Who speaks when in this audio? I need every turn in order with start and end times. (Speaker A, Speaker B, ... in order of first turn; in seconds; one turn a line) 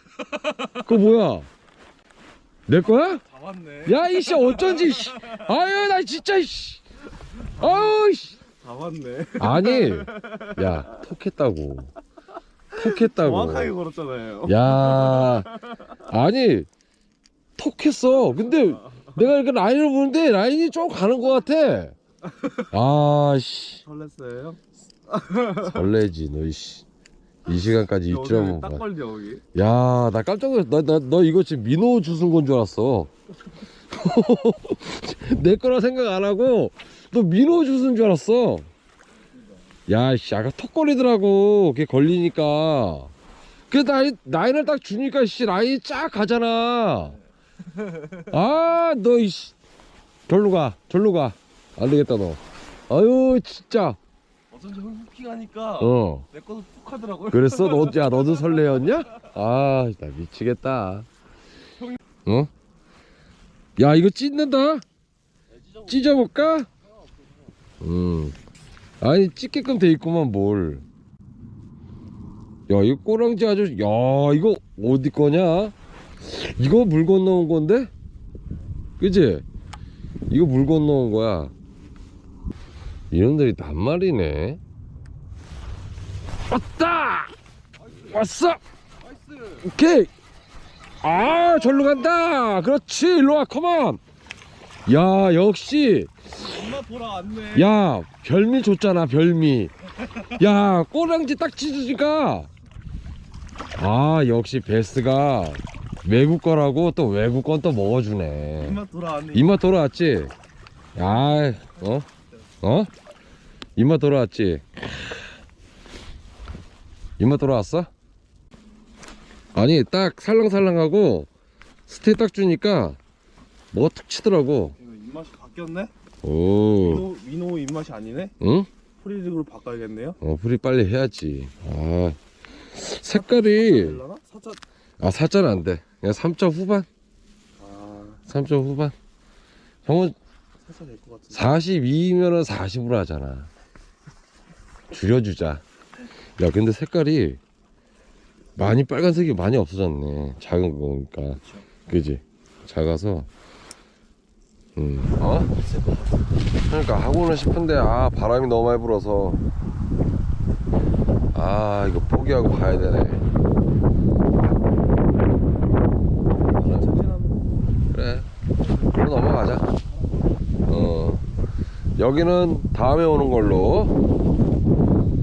Speaker A: 0.3-0.8
Speaker B: 0.8-1.5
Speaker B: 2.7-3.2
Speaker A: 3.1-5.4
Speaker B: 3.9-6.8
Speaker B: 7.5-8.4
Speaker A: 8.6-11.0
Speaker B: 9.4-11.9
Speaker B: 12.8-13.7
Speaker A: 12.8-15.8
Speaker B: 14.5-16.7
Speaker B: 17.6-22.0
Speaker B: 22.7-23.8
Speaker A: 23.8-25.8
Speaker B: 25.6-26.9
Speaker B: 27.4-28.9
Speaker A: 28.1-29.4
Speaker B: 29.5-33.1
Speaker B: 33.9-38.7
Speaker B: 39.9-43.1
Speaker B: 43.7-47.2
Speaker B: 48.2-49.6
Speaker B: 50.3-54.0
Speaker A: 54.5-58.7
Speaker B: 55.8-56.3
Speaker B: 57.3-61.1
Speaker B: 63.8-64.8
Speaker A: 65.7-66.0
Speaker B: 65.9-66.7
Speaker B: 67.8-68.4
Speaker B: 69.0-70.8
Speaker B: 72.7-77.9
Speaker B: 79.0-79.5
Speaker B: 80.3-81.5
Speaker B: 83.1-84.6
Speaker B: 86.5-87.3
Speaker B: 88.0-88.6
Speaker A: 89.1-89.6
Speaker B: 89.6-90.1
Speaker B: 91.0-94.0
Speaker A: 91.4-92.1
Speaker B: 94.9-96.6
Speaker A: 96.4-97.7
Speaker B: 97.5-102.5
Speaker B: 103.8-108.8
Speaker A: 108.6-109.6
Speaker B: 109.3-110.3
Speaker B: 111.0-112.1
Speaker B: 112.6-112.9
Speaker B: 113.8-114.8
Speaker B: 117.2-117.9
Speaker B: 119.5-121.3
Speaker B: 121.9-123.0
Speaker B: 123.7-124.8
Speaker A: 124.8-125.9
Speaker B: 126.2-127.1
Speaker A: 126.8-128.3
Speaker B: 128.4-128.7
Speaker A: 129.0-130.2
Speaker B: 130.2-132.2
Speaker B: 132.7-134.0
Speaker A: 133.1-134.6
Speaker B: 135.0-136.9
Speaker A: 137.6-138.2
Speaker B: 138.3-138.9
Speaker B: 139.8-140.2
Speaker A: 140.6-141.5
Speaker B: 141.3-143.5
Speaker B: 144.9-145.6
Speaker B: 146.4-147.4
Speaker B: 148.6-153.3
Speaker B: 154.8-155.5
Speaker B: 156.7-159.4
Speaker B: 161.3-163.2
Speaker A: 166.5-167.5
Speaker B: 166.6-166.9
Speaker B: 167.9-168.3
Speaker B: 168.9-169.7
Speaker B: 170.7-171.2
Speaker B: 172.0-173.9